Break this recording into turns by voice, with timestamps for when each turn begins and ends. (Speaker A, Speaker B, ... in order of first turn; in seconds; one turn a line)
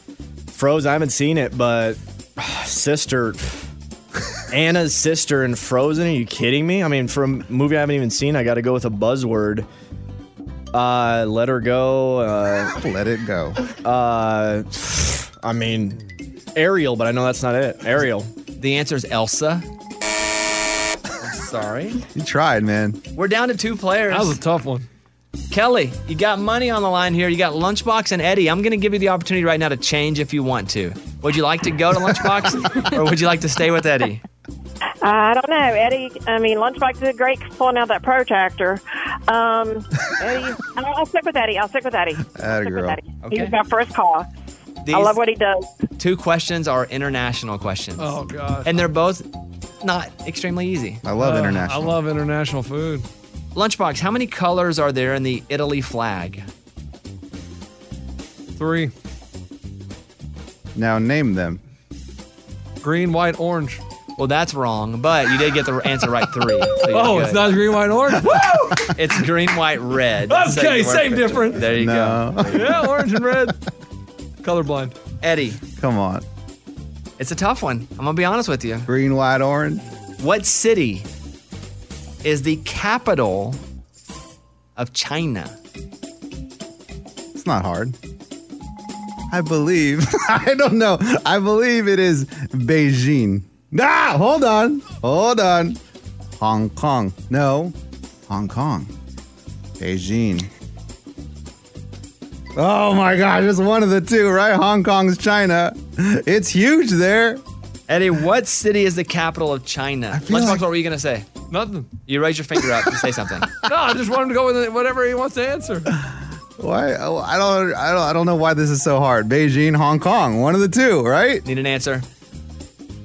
Speaker A: 0.5-3.4
Speaker A: 4.5-9.7
Speaker A: 10.7-12.7
Speaker B: 12.8-13.6
Speaker A: 13.8-16.0
Speaker A: 16.6-18.3
Speaker C: 18.6-19.7
Speaker C: 21.2-22.0
Speaker B: 22.1-23.0
Speaker C: 23.1-24.4
Speaker D: 24.1-24.9
Speaker C: 25.5-34.2
Speaker E: 35.0-44.3
Speaker B: 42.3-43.0
Speaker C: 43.2-43.5
Speaker C: 44.8-45.2
Speaker E: 44.9-45.7
Speaker C: 46.0-49.3
Speaker D: 48.0-48.9
Speaker C: 49.8-51.0
Speaker B: 51.0-52.0
Speaker D: 51.2-53.1
Speaker C: 53.5-56.5
Speaker D: 58.6-58.9
Speaker B: 60.8-61.6
Speaker D: 62.8-63.8
Speaker C: 64.2-67.5
Speaker D: 66.9-69.1
Speaker C: 68.9-72.8
Speaker D: 70.3-71.6
Speaker B: 71.6-72.9
Speaker D: 72.5-73.6
Speaker D: 74.4-74.9
Speaker C: 75.2-75.6
Speaker B: 75.8-76.2
Speaker C: 77.2-78.9
Speaker B: 78.9-79.8
Speaker C: 80.2-81.1
Speaker C: 82.2-83.6
Speaker C: 84.8-85.6
Speaker B: 87.3-88.0
Speaker B: 89.3-95.8
Speaker B: 96.4-97.7
Speaker B: 98.3-98.9
Speaker B: 99.8-100.5
Speaker B: 102.6-107.4
Speaker C: 107.9-111.3
Speaker B: 110.1-110.7
Speaker D: 111.5-112.0
Speaker C: 112.1-113.5
Speaker D: 113.6-115.9
Speaker B: 115.9-121.4
Speaker C: 121.5-122.1